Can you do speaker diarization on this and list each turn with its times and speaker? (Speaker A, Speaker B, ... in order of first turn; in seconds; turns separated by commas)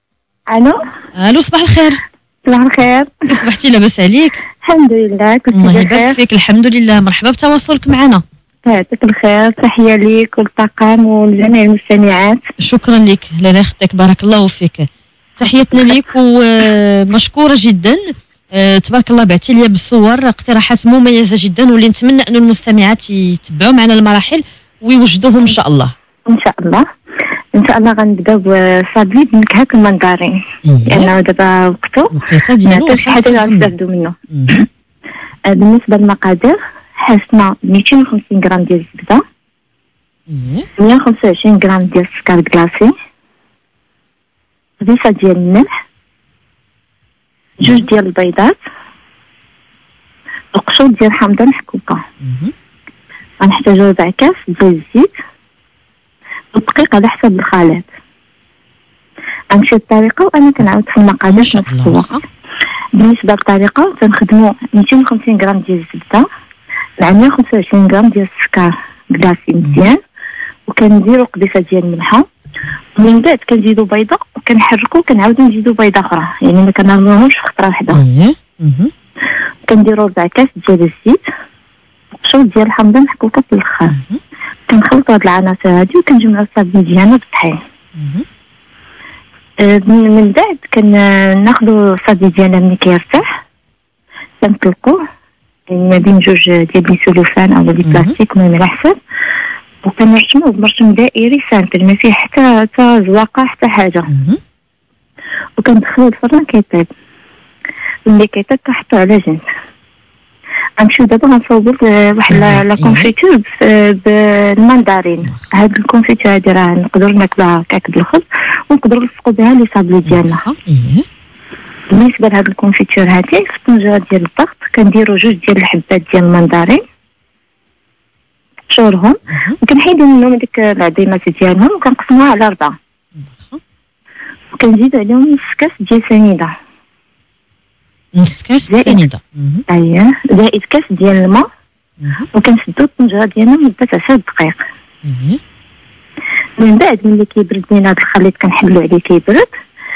Speaker A: 0.5-0.8, Speaker B: 1.2-2.0, Speaker A: 2.5-3.3, Speaker B: 3.3-4.4, Speaker A: 4.6-6.2, Speaker B: 5.5-8.2, Speaker A: 8.7-12.4, Speaker B: 12.6-25.9, Speaker A: 26.3-26.8, Speaker A: 27.6-32.1, Speaker B: 30.6-31.1, Speaker B: 32.1-33.7, Speaker A: 32.7-34.1, Speaker B: 34.3-34.6, Speaker A: 35.5-39.2, Speaker B: 40.3-40.7, Speaker A: 40.8-42.9, Speaker A: 44.8-45.7, Speaker A: 47.6-48.5, Speaker A: 50.5-52.0, Speaker B: 52.2-52.5, Speaker A: 53.4-55.1, Speaker A: 56.5-57.9, Speaker A: 59.5-62.1, Speaker B: 61.3-62.2, Speaker A: 63.0-66.3, Speaker A: 67.0-70.0, Speaker A: 70.7-72.3, Speaker A: 73.0-78.0, Speaker B: 77.9-78.9, Speaker A: 79.7-81.2, Speaker A: 82.2-84.0, Speaker B: 83.9-84.2, Speaker A: 84.7-87.6, Speaker B: 88.0-88.2, Speaker A: 89.6-93.2, Speaker A: 94.4-95.0, Speaker A: 95.7-99.0, Speaker B: 97.8-98.1, Speaker A: 99.8-104.1, Speaker B: 104.1-104.4, Speaker A: 105.6-106.9, Speaker A: 108.1-109.4, Speaker A: 110.8-120.4, Speaker B: 112.3-113.1, Speaker B: 115.2-115.5, Speaker B: 120.1-121.0, Speaker A: 121.9-126.8, Speaker A: 128.7-132.8, Speaker B: 129.3-129.6, Speaker B: 133.2-133.6, Speaker A: 134.5-136.5, Speaker B: 138.2-139.6, Speaker A: 138.7-139.0, Speaker A: 139.7-141.5, Speaker B: 142.0-142.3, Speaker A: 142.3-144.6, Speaker B: 145.0-145.4, Speaker A: 146.6-149.5